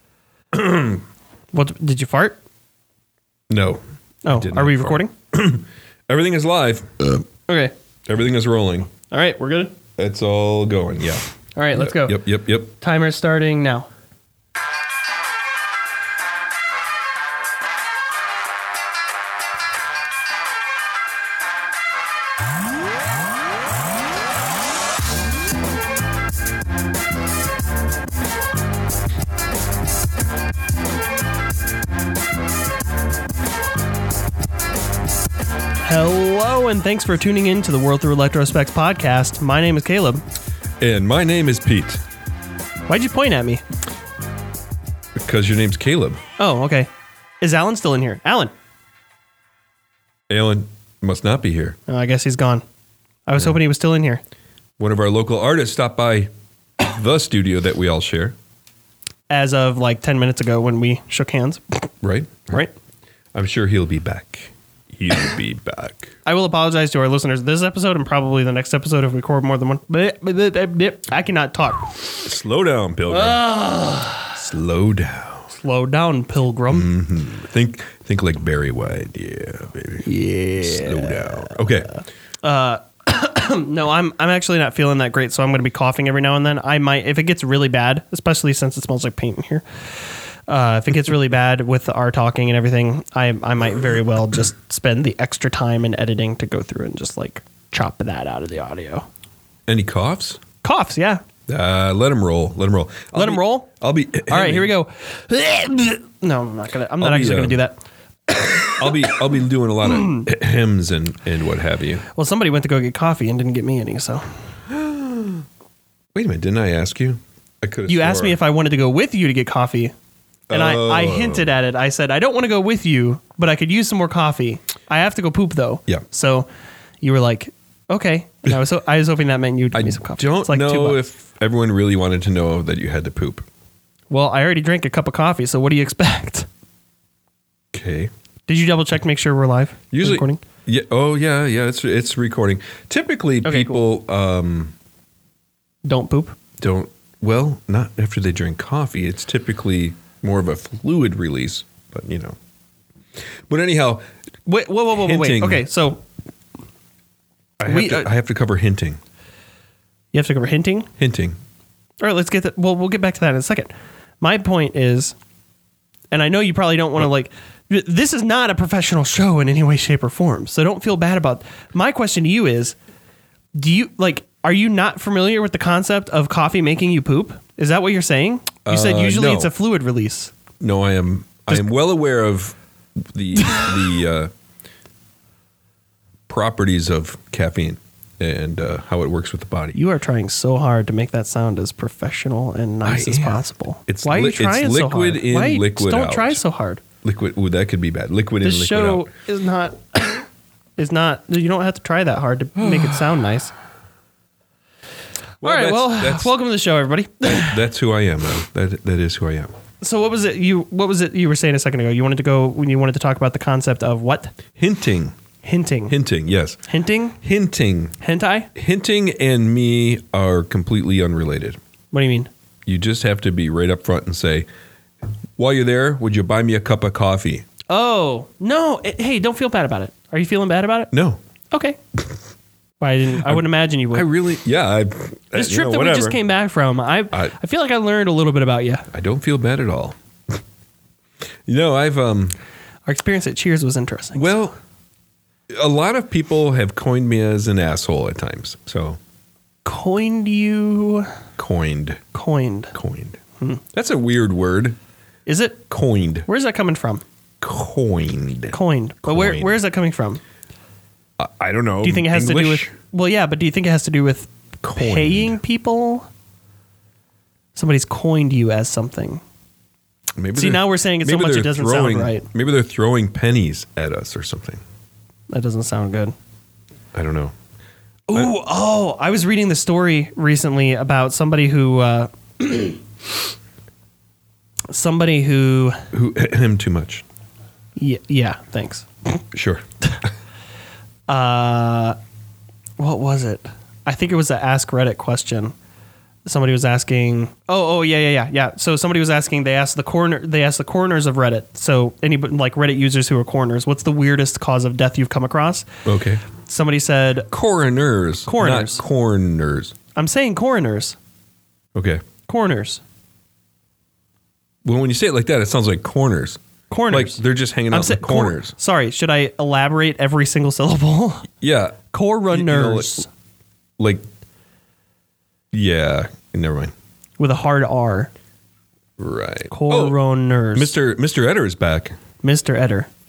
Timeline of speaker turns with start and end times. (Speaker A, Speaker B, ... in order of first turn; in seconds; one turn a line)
Speaker A: 0.5-1.0
Speaker B: 1.5-2.4
Speaker A: 3.5-7.2
Speaker B: 4.2-5.1
Speaker B: 7.5-7.7
Speaker A: 8.1-8.9
Speaker B: 9.1-9.7
Speaker A: 10.0-12.7
Speaker B: 11.6-12.2
Speaker B: 12.8-13.9
Speaker B: 35.8-40.2
Speaker A: 40.8-42.0
Speaker B: 42.9-43.6
Speaker A: 45.2-46.2
Speaker B: 46.4-46.9
Speaker B: 47.4-48.5
Speaker A: 50.3-51.8
Speaker B: 51.9-52.6
Speaker B: 53.2-54.2
Speaker A: 54.8-58.4
Speaker B: 59.3-61.9
Speaker A: 62.0-62.6
Speaker A: 63.3-66.1
Speaker B: 66.2-71.9
Speaker A: 72.2-73.4
Speaker B: 73.1-74.4
Speaker A: 74.3-75.5
Speaker B: 75.5-76.9
Speaker A: 76.7-80.1
Speaker B: 80.0-81.6
Speaker A: 80.6-81.9
Speaker B: 82.4-89.6
Speaker B: 90.5-99.1
Speaker A: 99.7-100.4
Speaker B: 100.6-101.2
Speaker A: 101.5-104.7
Speaker B: 103.1-103.7
Speaker B: 104.3-108.9
Speaker A: 107.0-107.6
Speaker A: 108.5-112.0
Speaker B: 109.8-110.3
Speaker B: 112.1-114.2
Speaker A: 114.7-115.4
Speaker A: 116.1-118.4
Speaker B: 117.9-119.9
Speaker A: 120.5-121.5
Speaker B: 120.5-126.5
Speaker B: 127.0-131.0
Speaker A: 129.7-133.4
Speaker B: 134.1-136.5
Speaker A: 137.7-138.1
Speaker B: 138.5-140.4
Speaker A: 139.9-144.7
Speaker B: 143.4-143.8
Speaker B: 145.8-146.3
Speaker A: 146.6-152.4
Speaker A: 153.5-154.1
Speaker B: 154.4-156.0
Speaker A: 154.9-155.6
Speaker A: 157.6-159.0
Speaker B: 157.6-158.1
Speaker B: 160.1-160.9
Speaker A: 161.0-161.4
Speaker B: 162.0-165.1
Speaker B: 166.1-172.8
Speaker B: 173.6-180.3
Speaker A: 178.7-179.5
Speaker A: 180.6-184.3
Speaker B: 183.4-183.7
Speaker A: 186.3-189.8
Speaker B: 189.7-196.8
Speaker A: 192.8-196.4
Speaker A: 197.0-199.1
Speaker B: 198.4-200.2
Speaker B: 200.8-203.5
Speaker A: 202.6-203.0
Speaker B: 205.4-207.6
Speaker A: 205.4-206.3
Speaker A: 207.2-209.5
Speaker B: 209.8-214.3
Speaker A: 214.6-215.1
Speaker B: 215.4-215.9
Speaker A: 215.9-216.6
Speaker B: 216.7-217.2
Speaker A: 217.2-217.9
Speaker B: 218.0-218.5
Speaker A: 218.5-221.6
Speaker B: 221.9-222.3
Speaker A: 222.7-224.5
Speaker A: 225.4-227.4
Speaker B: 227.7-230.9
Speaker A: 230.9-231.2
Speaker B: 231.5-231.8
Speaker B: 232.8-234.1
Speaker A: 233.2-236.2
Speaker B: 235.3-238.8
Speaker A: 238.9-240.4
Speaker A: 241.4-242.3
Speaker B: 242.8-244.3
Speaker A: 244.1-244.6
Speaker A: 245.5-249.0
Speaker B: 249.6-251.1
Speaker A: 251.4-252.0
Speaker B: 252.1-252.7
Speaker A: 252.7-253.2
Speaker A: 253.7-254.8
Speaker B: 255.2-255.6
Speaker A: 255.7-256.3
Speaker B: 256.2-257.0
Speaker A: 257.4-259.5
Speaker B: 258.5-260.2
Speaker A: 261.2-262.7
Speaker B: 261.8-266.1
Speaker A: 264.6-265.4
Speaker B: 267.5-269.2
Speaker A: 270.1-274.6
Speaker B: 270.3-272.2
Speaker B: 275.3-276.1
Speaker A: 276.9-277.3
Speaker B: 278.1-282.8
Speaker B: 284.7-285.8
Speaker A: 285.9-287.0
Speaker B: 287.8-289.2
Speaker A: 289.3-289.6
Speaker B: 291.1-292.0
Speaker B: 292.8-295.5
Speaker B: 296.2-305.7
Speaker A: 305.9-306.2
Speaker B: 306.4-307.3
Speaker A: 307.3-309.7
Speaker B: 308.2-308.8
Speaker B: 309.9-310.9
Speaker A: 311.7-312.0
Speaker B: 312.3-312.8
Speaker A: 314.6-318.5
Speaker B: 316.7-317.2
Speaker B: 317.7-321.3
Speaker A: 321.4-321.8
Speaker B: 321.9-323.1
Speaker A: 322.3-323.0
Speaker A: 323.8-324.1
Speaker A: 325.5-326.7
Speaker B: 327.2-328.1
Speaker A: 329.0-330.0
Speaker B: 329.5-330.7
Speaker A: 330.5-331.9
Speaker B: 332.2-332.9